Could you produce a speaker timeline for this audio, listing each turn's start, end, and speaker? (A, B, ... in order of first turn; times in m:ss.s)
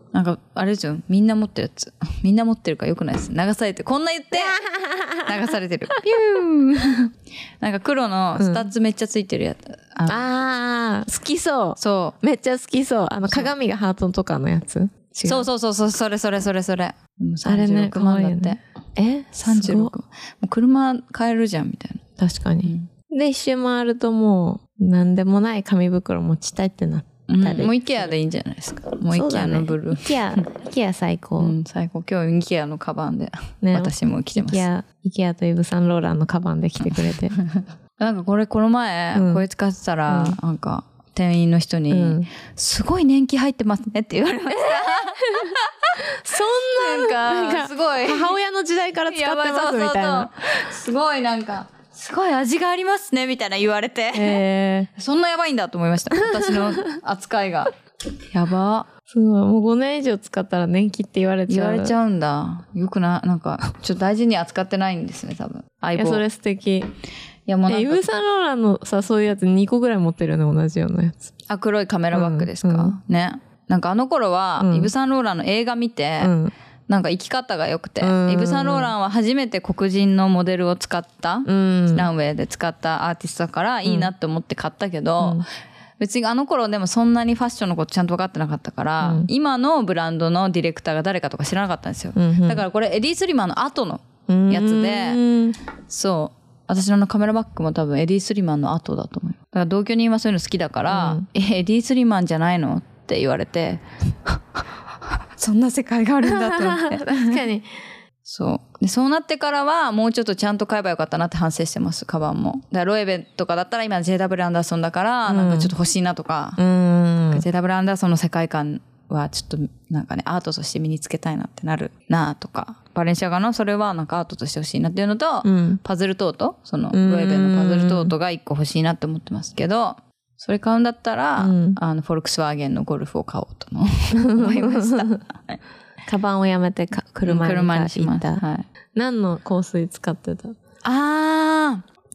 0:00.1-0:04.6 A
0:04.4-0:05.3 B
0:05.2-0:10.3 A
0:08.4-0:08.7 B
0:10.1-0:15.5 B
0:11.8-0:12.2 A
0:15.2-0:18.6 A
0:17.4-0:19.9 B
0:19.4-0:22.0 A
0:22.2-0:28.1 B
0:22.6-0:22.9 A
0:27.3-0:30.1 A
0:29.1-0:31.6 B
0:31.4-0:34.7 A
0:33.6-0:37.4 B
0:36.9-0:37.5 A
0:38.0-0:46.0 A
0:39.1-0:39.4 B
0:40.1-0:40.4 B
0:41.9-0:42.3 B
0:44.7-0:50.4 B
0:46.7-0:48.4 A
0:49.1-0:54.4 A
0:54.1-0:54.9 B
0:55.0-0:57.7 A
0:58.3-0:58.9 A
0:59.1-1:02.0 B
1:01.5-1:06.2 A
1:06.0-1:06.9 B
1:07.5-1:08.1 A
1:07.7-1:11.3 B
1:11.5-1:16.3 A
1:12.1-1:12.9 B
1:14.6-1:14.9 B
1:16.2-1:16.5 B
1:16.9-1:25.5 A
1:18.0-1:18.9 B
1:21.5-1:22.1 B
1:26.0-1:35.2 A
1:29.0-1:29.3 B
1:32.2-1:32.6 B
1:34.3-1:35.6 B
1:35.9-1:44.6 A
1:40.9-1:41.3 B
1:45.4-1:47.5 A
1:46.3-1:47.7 B
1:48.2-1:56.6 A
1:55.3-1:55.7 B
1:56.6-1:57.4 B
1:57.3-2:15.6 A
2:05.4-2:05.8 B
2:06.9-2:08.1 B
2:11.4-2:11.8 B
2:14.2-2:15.2 B
2:16.1-2:18.4 B
2:17.2-2:18.6 A
2:19.0-2:20.6 B
2:20.8-2:21.8 A